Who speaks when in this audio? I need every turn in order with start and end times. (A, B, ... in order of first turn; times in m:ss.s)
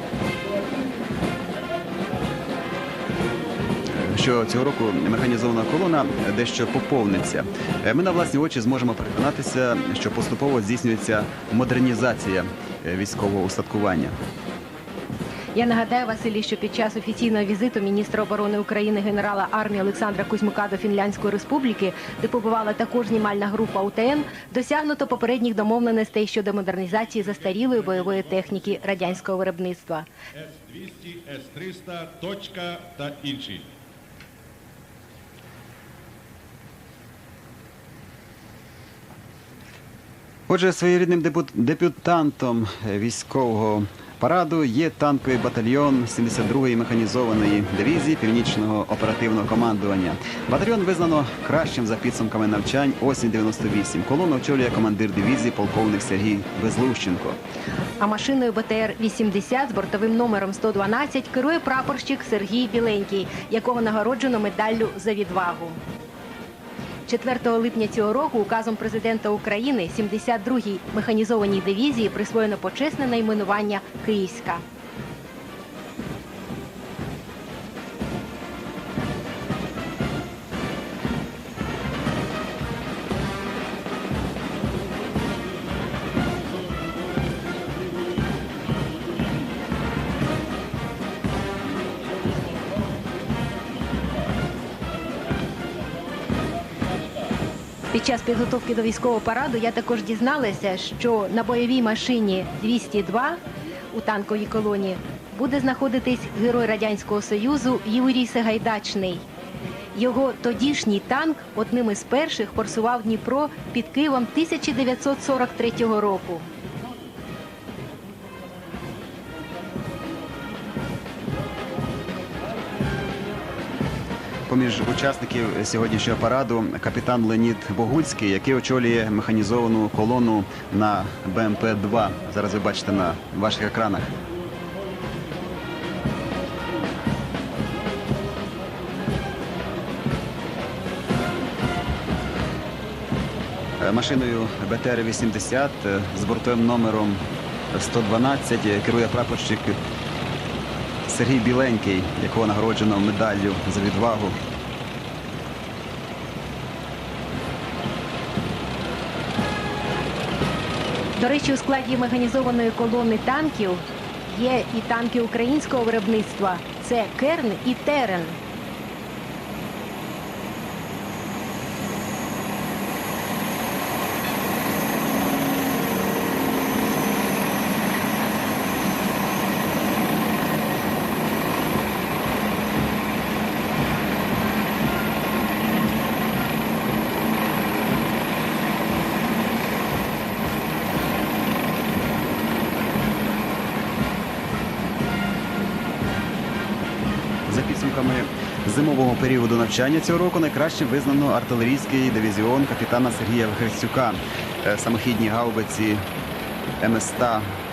0:03.9-0:14.2 A
0:15.5-0:30.1 B
0:27.6-0:28.6 C
0:30.4-0:33.7 C
0:40.5-0:57.4 A
0:58.0-1:05.8 B
1:07.1-1:14.6 B
1:37.9-1:43.4 B
1:43.9-1:49.2 B
1:50.0-1:56.5 B
2:04.5-2:14.1 A
2:23.8-2:29.8 A
2:31.1-2:34.4 A
2:41.2-2:48.4 B
3:17.5-3:26.0 A
3:26.8-3:27.4 A